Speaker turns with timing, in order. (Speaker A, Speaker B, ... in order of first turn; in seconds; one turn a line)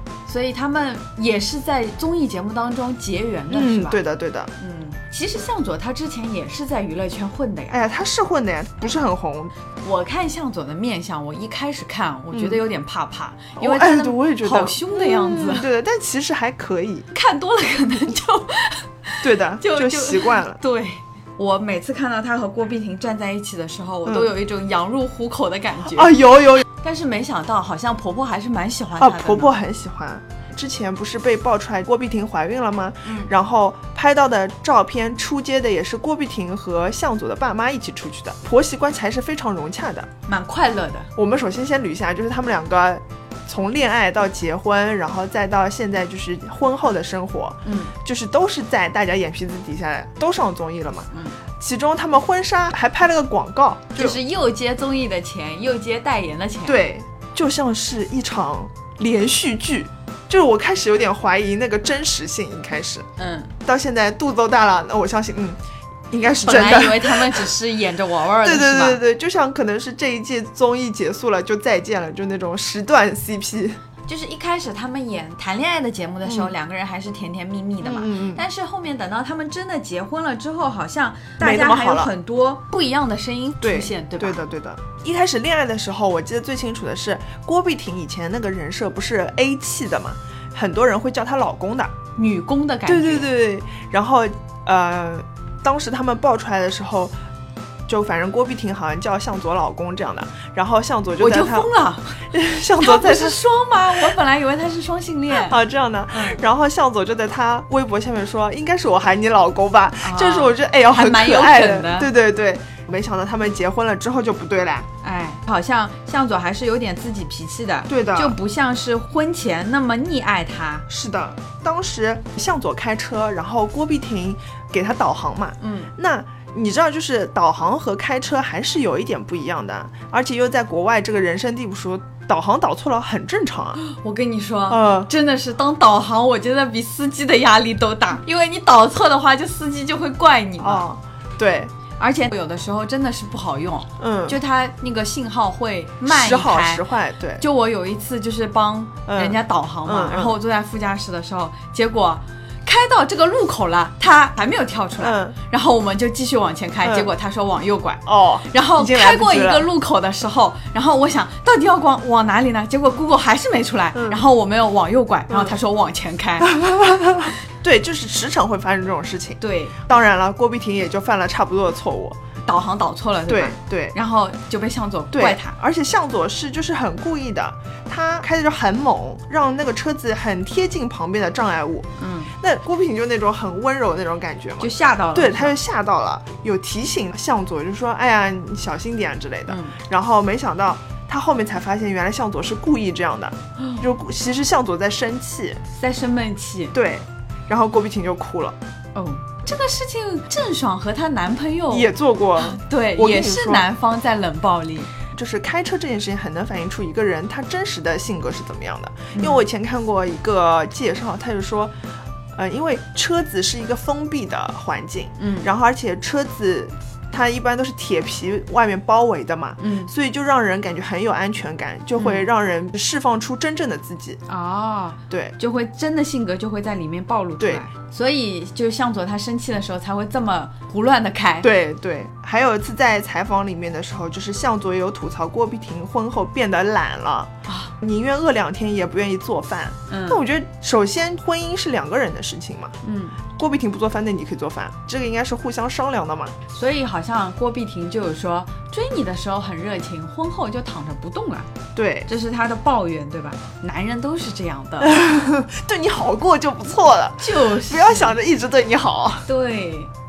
Speaker A: 0.3-4.0
Speaker B: 3.5-4.5
Speaker A: 4.6-7.9
Speaker B: 7.7-9.5
Speaker A: 9.8-15.7
Speaker B: 12.3-12.6
Speaker B: 13.6-17.1
Speaker A: 17.1-26.2
Speaker B: 19.2-20.6
Speaker B: 25.9-26.7
Speaker A: 26.8-29.5
Speaker B: 29.0-40.1
Speaker A: 33.0-33.3
Speaker A: 40.3-41.1
Speaker B: 41.2-54.2
Speaker A: 47.6-47.9
Speaker A: 51.1-51.4
Speaker A: 54.0-56.8
Speaker B: 56.6-63.0
Speaker A: 63.2-63.5
Speaker B: 63.6-65.6
Speaker B: 66.1-67.5
Speaker A: 66.4-69.0
Speaker B: 68.4-73.8
Speaker A: 74.1-84.4
Speaker B: 76.2-76.5
Speaker B: 77.8-78.5
Speaker B: 81.4-82.1
Speaker B: 83.6-91.9
Speaker A: 92.2-93.3
Speaker B: 92.9-97.1
Speaker B: 97.9-101.7
Speaker A: 101.2-105.6
Speaker B: 102.3-103.4
Speaker B: 105.3-114.9
Speaker A: 106.1-106.4
Speaker A: 110.0-112.1
Speaker A: 115.0-120.8
Speaker B: 117.9-118.4
Speaker B: 120.9-133.8
Speaker A: 125.6-125.9
Speaker A: 133.8-140.9
Speaker B: 134.7-135.1
Speaker B: 140.6-141.7
Speaker A: 142.0-146.9
Speaker B: 144.0-144.4
Speaker B: 146.1-147.4
Speaker A: 147.4-166.5
Speaker B: 149.1-150.4
Speaker B: 155.0-155.4
Speaker B: 158.1-159.7
Speaker B: 163.9-164.2
Speaker B: 165.3-165.6
Speaker B: 166.4-172.2
Speaker A: 169.4-169.8
Speaker A: 172.5-175.6
Speaker B: 173.3-174.0
Speaker B: 175.1-181.9
Speaker A: 182.0-182.3
Speaker B: 182.4-195.6
Speaker A: 184.6-185.6
Speaker A: 189.5-189.8
Speaker A: 193.6-193.8
Speaker A: 195.7-196.8
Speaker B: 196.7-198.6
Speaker A: 198.9-204.9
Speaker B: 201.7-203.7
Speaker B: 205.1-211.7
Speaker A: 209.1-209.5
Speaker B: 212.3-224.2
Speaker A: 215.2-215.5
Speaker A: 219.6-219.9
Speaker A: 222.0-222.3
Speaker A: 224.3-231.5
Speaker B: 225.1-225.3
Speaker B: 231.4-237.3
Speaker A: 237.5-237.7
Speaker B: 237.8-242.7
Speaker A: 239.9-240.2
Speaker A: 242.8-243.2
Speaker B: 243.4-246.3
Speaker A: 246.5-251.5
Speaker B: 251.8-252.1
Speaker A: 252.1-255.0
Speaker B: 254.8-259.3
Speaker A: 257.2-258.2
Speaker A: 259.3-259.9